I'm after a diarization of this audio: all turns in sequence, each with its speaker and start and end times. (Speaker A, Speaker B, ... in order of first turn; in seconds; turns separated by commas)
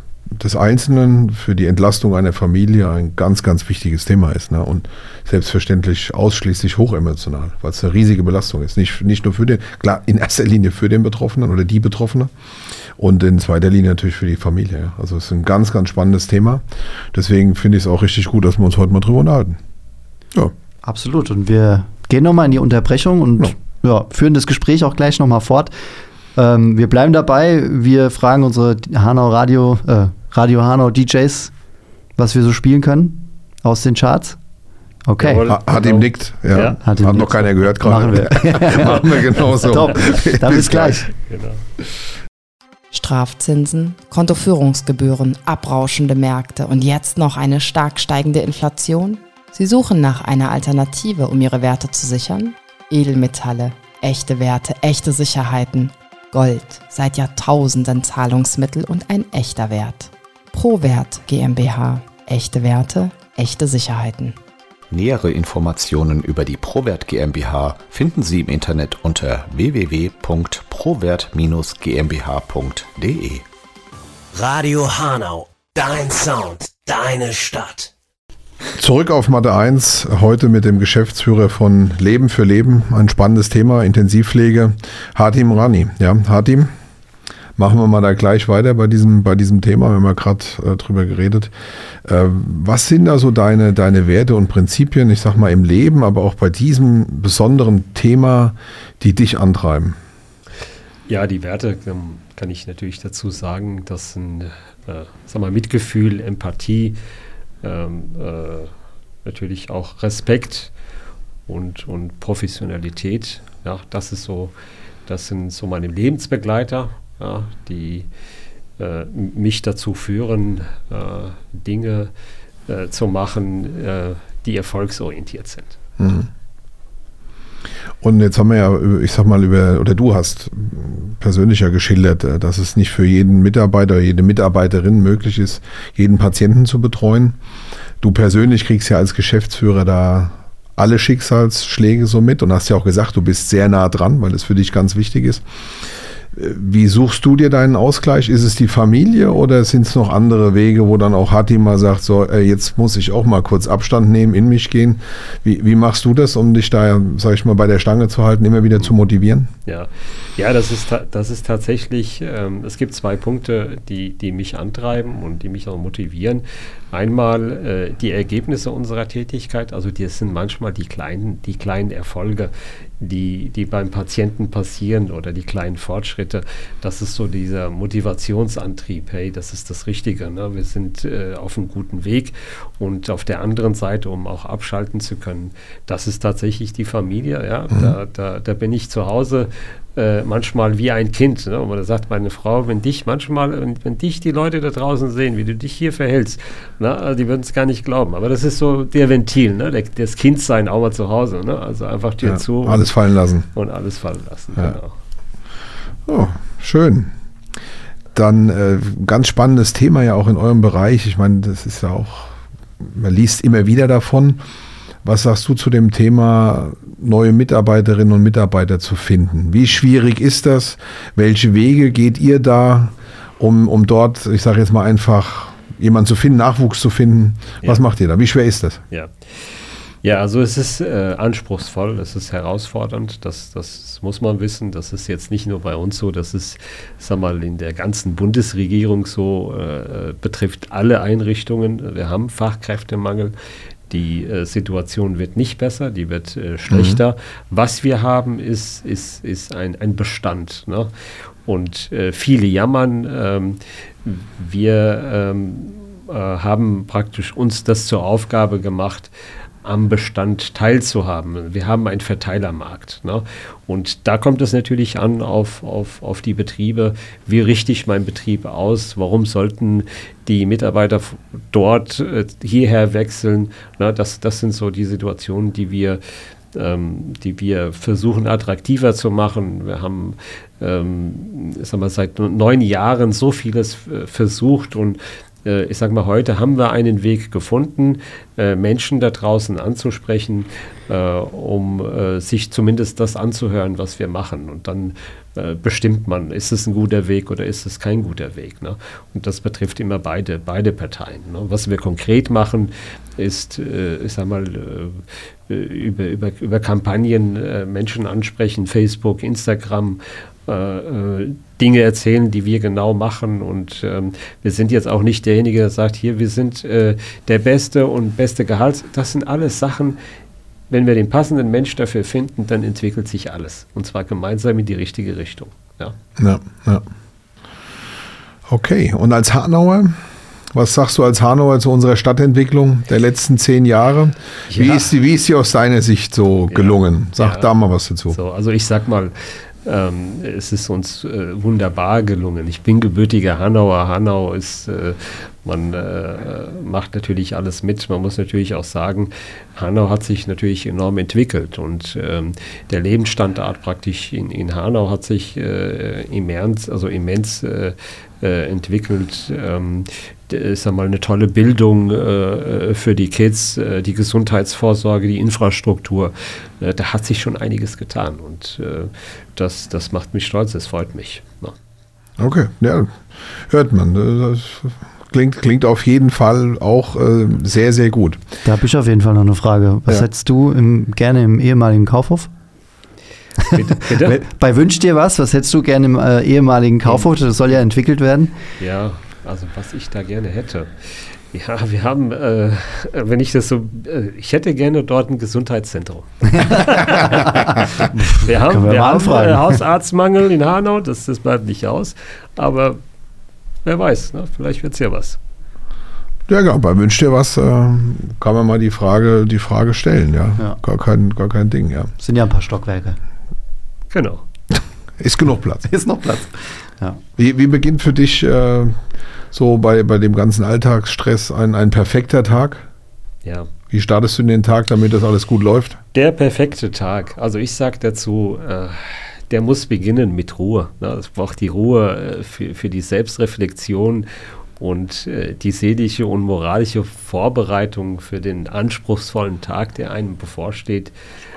Speaker A: 0.3-12.3, Speaker A: 13.0-19.6, Speaker B: 20.8-25.7, Speaker B: 26.4-31.5, Speaker B: 32.2-34.4, Speaker B: 35.1-35.4, Speaker C: 35.2-36.8, Speaker A: 35.5-41.1, Speaker B: 36.8-41.1, Speaker C: 41.1-41.6, Speaker D: 42.9-64.4, Speaker E: 64.9-73.4, Speaker F: 74.3-77.9, Speaker A: 78.8-86.7, Speaker A: 87.6-91.5, Speaker A: 92.0-100.0, Speaker C: 101.1-107.0, Speaker C: 107.6-108.7, Speaker C: 109.2-110.7, Speaker C: 111.5-114.5, Speaker C: 115.1-118.1, Speaker C: 118.8-122.1, Speaker C: 122.7-125.8, Speaker A: 126.0-126.3, Speaker A: 128.0-137.4, Speaker A: 138.0-145.4, Speaker A: 146.3-159.5, Speaker C: 159.7-202.9, Speaker A: 202.2-203.5, Speaker C: 203.5-204.9, Speaker A: 206.1-207.1, Speaker A: 208.1-214.4, Speaker A: 215.0-228.8, Speaker C: 228.9-229.5, Speaker C: 230.0-243.3, Speaker C: 243.9-250.9, Speaker A: 246.7-247.0, Speaker C: 251.4-259.1, Speaker C: 259.6-276.0, Speaker C: 276.5-320.0, Speaker C: 320.7-325.9, Speaker A: 326.2-326.8, Speaker A: 328.5-330.0, Speaker A: 330.5-338.2, Speaker C: 334.5-334.9, Speaker C: 336.5-337.5, Speaker C: 338.1-371.5, Speaker A: 372.2-378.2, Speaker B: 378.4-382.3, Speaker C: 383.4-384.2, Speaker B: 383.9-388.4, Speaker C: 388.6-402.8, Speaker B: 396.4-399.6, Speaker C: 403.6-405.2, Speaker A: 406.3-411.9, Speaker B: 412.0-413.0, Speaker C: 413.9-414.2, Speaker A: 415.0-415.6, Speaker B: 415.7-417.0, Speaker A: 417.2-418.8, Speaker A: 419.3-422.6, Speaker C: 423.2-423.5, Speaker A: 423.7-425.8, Speaker C: 425.9-440.9